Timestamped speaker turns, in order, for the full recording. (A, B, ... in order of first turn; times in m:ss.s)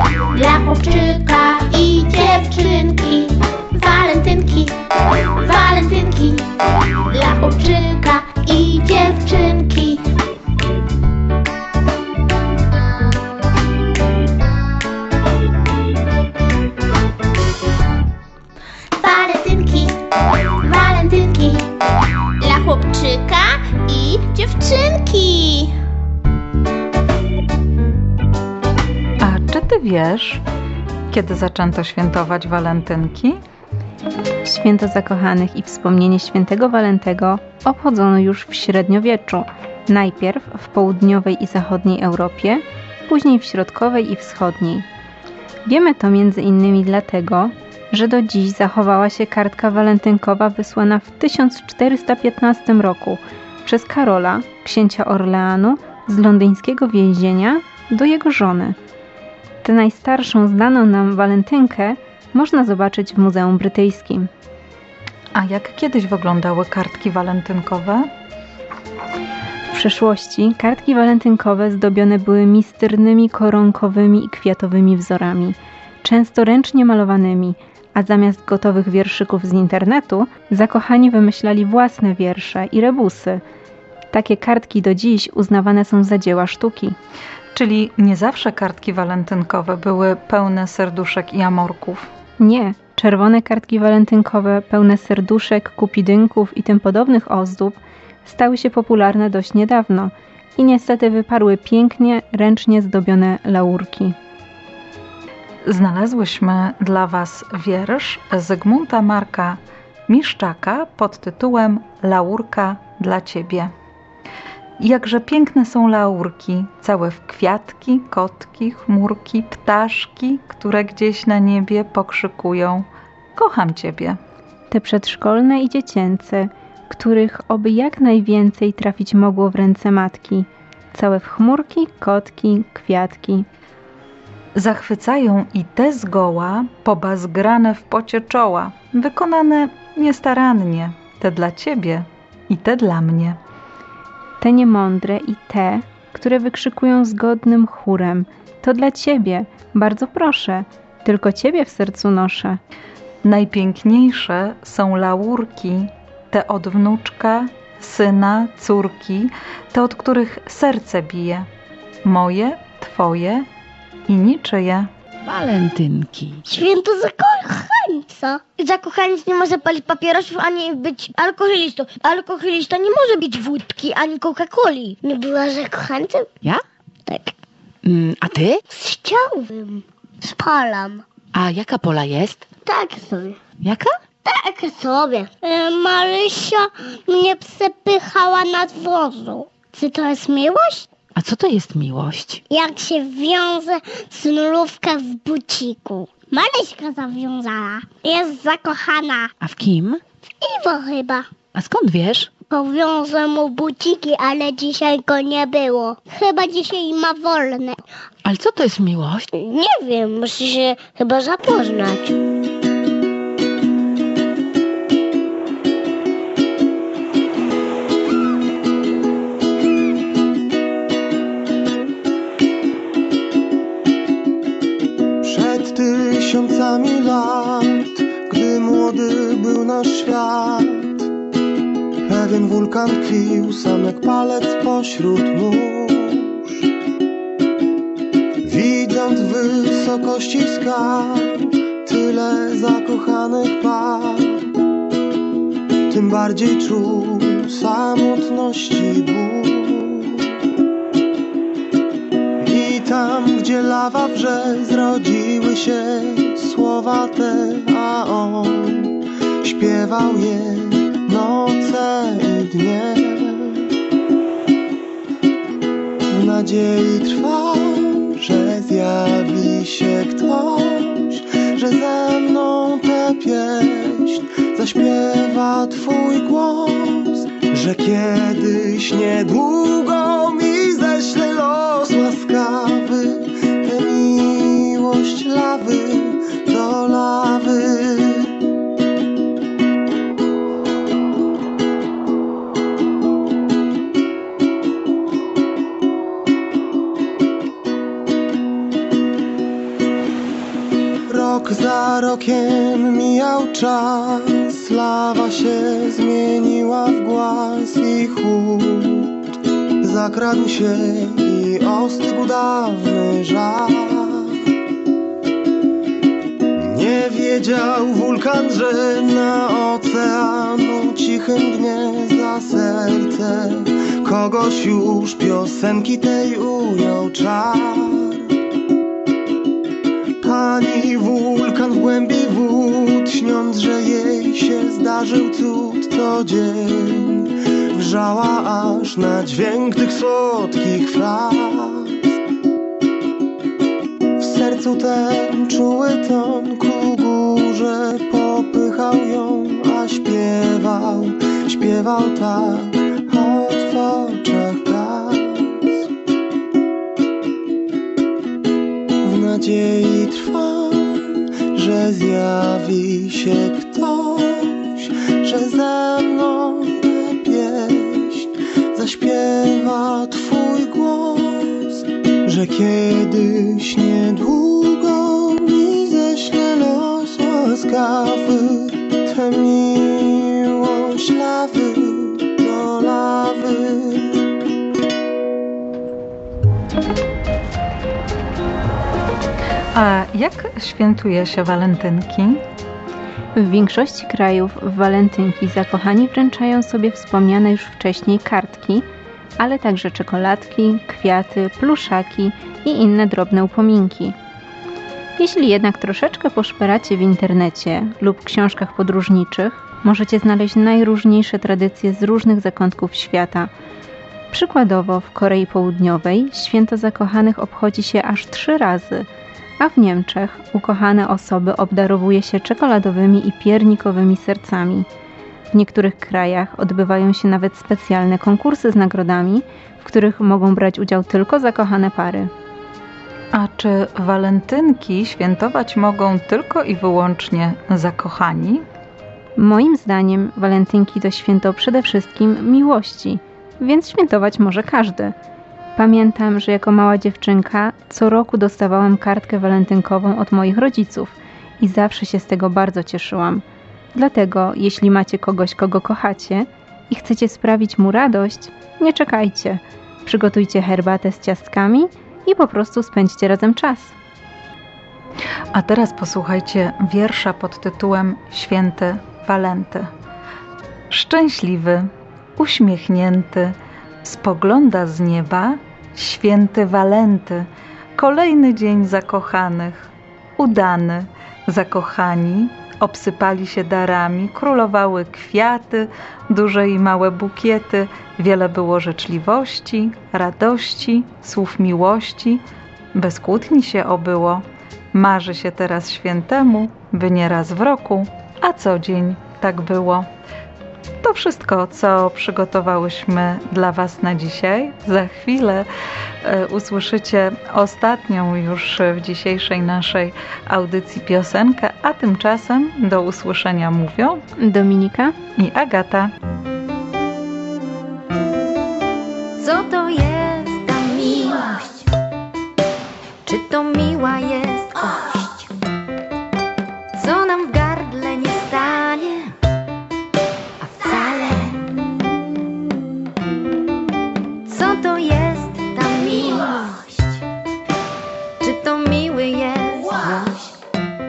0:00.3-0:10.1 A
0:19.0-0:20.0 A
0:20.5-0:21.7 A
0:22.4-0:25.7 A
0:29.2-0:30.4 B
0:31.1-0:33.4 B
0:34.4-0:44.9 C
0:45.6-0:58.8 C
0:59.6-1:04.3 C
1:05.4-1:08.1 B
1:09.7-1:23.4 C
1:24.1-1:27.0 C
1:27.5-1:32.1 B
1:32.4-1:44.2 C
1:45.7-1:53.7 B
1:54.8-2:04.2 B
2:04.7-2:13.5 C
2:14.6-2:23.4 B
2:24.4-2:32.6 C
2:33.2-2:41.5 B
2:42.0-2:43.5 B
2:44.1-2:44.9 B
2:45.2-2:46.4 D
2:46.5-2:48.5 E
2:48.6-2:55.0 F
2:55.0-2:56.3 E
2:57.1-2:57.3 E
2:57.8-2:58.6 D
2:58.7-3:01.0 E
3:01.3-3:02.5 D
3:02.6-3:03.4 E
3:03.6-3:04.0 D
3:04.2-3:10.9 E
3:11.2-3:12.4 D
3:12.5-3:19.3 E
3:19.4-3:20.0 D
3:20.4-3:21.3 E
3:21.5-3:22.3 D
3:22.4-3:27.8 E
3:28.2-3:29.3 D
3:29.3-3:32.2 E
3:45.2-3:51.1 G
3:52.1-3:56.6 G
3:58.4-4:04.5 G
4:05.9-4:10.4 G
4:12.4-4:23.7 G
4:26.1-4:48.3 G
5:01.1-5:09.1 G
5:09.8-5:14.4 G
5:16.6-5:28.3 G
5:30.2-5:42.0 G
5:44.2-5:55.8 G
5:59.0-6:24.2 G
6:29.7-6:32.4 B
6:33.4-6:38.9 C
6:39.4-6:44.2 C
6:45.2-6:53.5 C
6:54.3-7:04.9 C
7:05.5-7:12.3 C
7:13.3-7:18.6 B
7:19.4-7:25.2 C
7:25.8-7:44.0 C
7:45.5-7:49.9 B
7:50.9-8:12.4 B
8:12.9-8:20.1 B
8:21.0-8:25.7 B
8:26.2-8:34.2 B
8:34.4-8:35.2 C
8:35.4-8:36.1 B
8:39.4-8:41.9 H
8:43.2-8:45.5 H
8:47.0-8:49.3 H
8:50.6-8:51.7 H
8:54.4-8:57.2 H
8:58.4-9:00.6 H